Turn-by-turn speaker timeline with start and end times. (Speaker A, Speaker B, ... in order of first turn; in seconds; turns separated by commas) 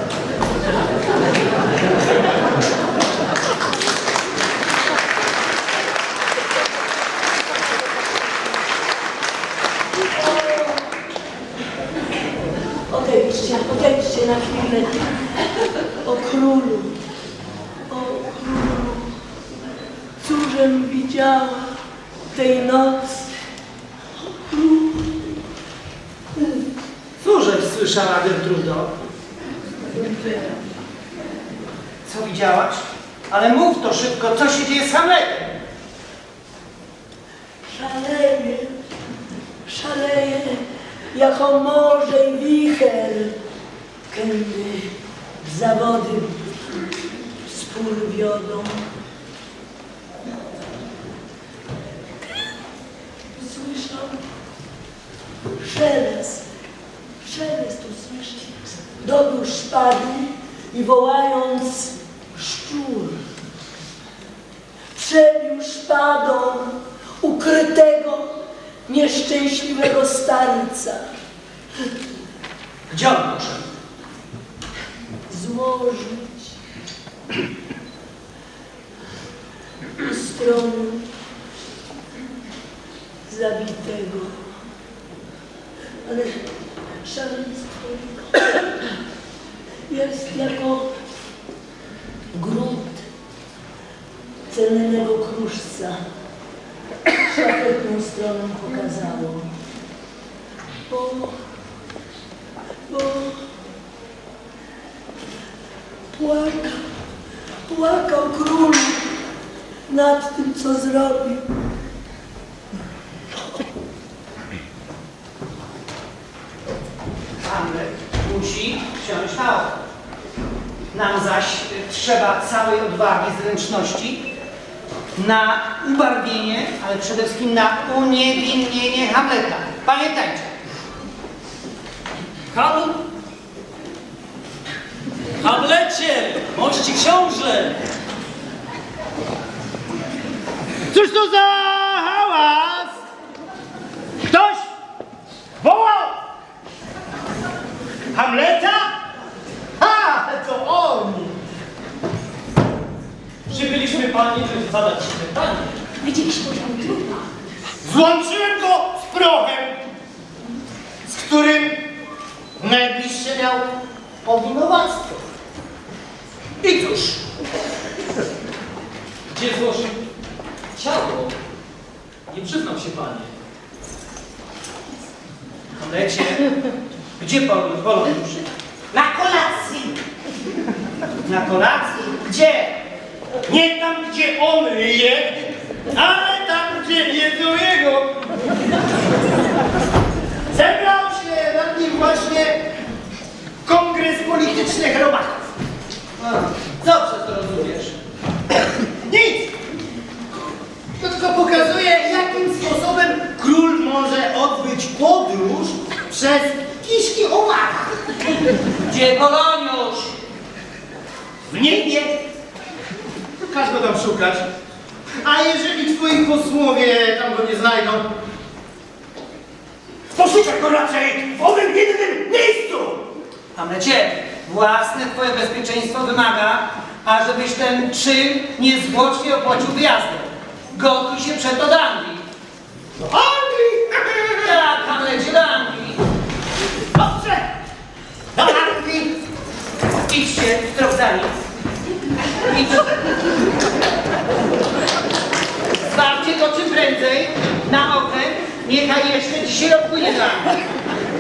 Speaker A: 10.1-10.9, Speaker A: 12.9-17.0, Speaker A: 17.9-19.2, Speaker A: 20.2-23.3, Speaker A: 24.2-25.3, Speaker B: 27.2-28.9, Speaker A: 29.8-30.6, Speaker B: 32.0-35.6, Speaker A: 37.7-38.8, Speaker A: 39.6-43.4, Speaker A: 44.1-46.5, Speaker A: 47.4-48.9, Speaker A: 53.3-54.3, Speaker A: 55.6-56.5, Speaker A: 57.2-63.2, Speaker A: 64.9-71.1, Speaker B: 72.9-73.7, Speaker A: 75.3-76.5, Speaker A: 80.0-81.1, Speaker A: 83.3-84.5, Speaker A: 86.0-86.4, Speaker A: 87.0-88.9, Speaker A: 89.9-91.0, Speaker A: 92.3-93.1, Speaker A: 94.5-96.0, Speaker A: 97.1-99.5, Speaker A: 100.9-101.4, Speaker A: 102.9-103.4, Speaker A: 106.1-106.9, Speaker A: 107.7-109.1, Speaker A: 109.9-111.5, Speaker B: 117.4-119.8, Speaker B: 120.9-124.3, Speaker B: 125.2-130.5, Speaker C: 132.5-133.0, Speaker C: 135.4-137.8, Speaker D: 140.9-143.0, Speaker D: 144.2-144.7, Speaker D: 145.6-146.2, Speaker D: 148.1-148.9, Speaker D: 149.8-151.3, Speaker C: 153.5-156.0, Speaker B: 156.0-157.2, Speaker D: 157.8-159.8, Speaker D: 161.1-161.8, Speaker D: 162.6-163.6, Speaker B: 164.2-165.2, Speaker B: 166.6-167.2, Speaker C: 169.3-170.0, Speaker C: 170.8-171.3, Speaker C: 172.3-173.3, Speaker B: 175.8-176.5, Speaker B: 177.2-179.9, Speaker B: 181.2-182.8, Speaker D: 183.5-188.1, Speaker D: 190.5-192.6, Speaker D: 193.7-195.5, Speaker B: 196.2-198.0, Speaker D: 199.1-199.5, Speaker D: 201.0-208.0, Speaker B: 208.7-210.1, Speaker D: 211.5-212.2, Speaker D: 213.4-214.5, Speaker D: 215.2-218.1, Speaker D: 220.1-223.0, Speaker B: 223.6-232.2, Speaker D: 233.0-234.4, Speaker B: 234.4-236.0, Speaker D: 236.9-237.5, Speaker D: 238.4-239.1, Speaker B: 240.1-241.4, Speaker B: 242.3-243.0, Speaker B: 245.8-250.6